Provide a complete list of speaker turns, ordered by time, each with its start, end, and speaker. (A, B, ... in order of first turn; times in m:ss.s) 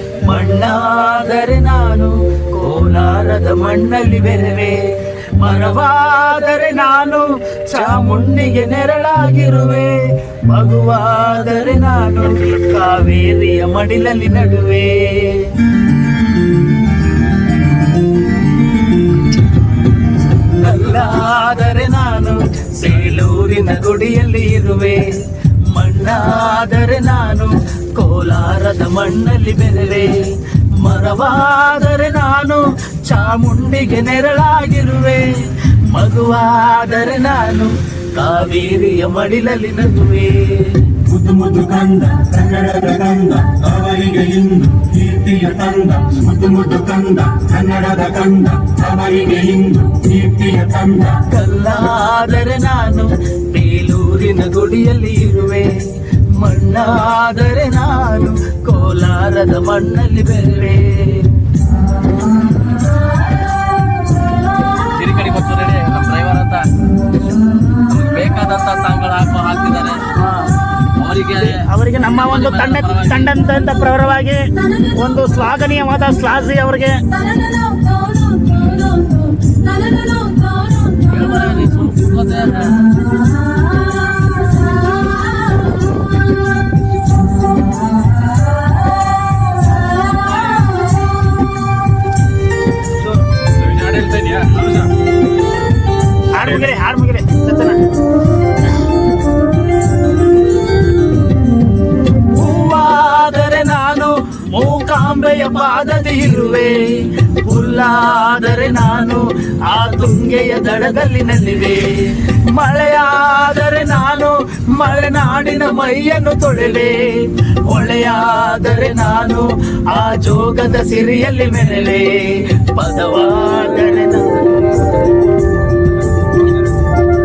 0:00.2-0:15.5 A
0:20.5-0:25.2 A
0:25.7-0:41.0 A
0:41.1-0:51.2 B
0:51.2-0:55.8 A
0:56.3-1:01.4 A
1:04.9-1:06.7 C
1:07.9-1:10.2 C
1:10.9-1:13.3 C
1:11.7-1:17.0 D
1:20.9-1:22.9 C
1:33.6-1:34.8 C
1:36.4-1:37.8 D
1:42.3-2:04.8 A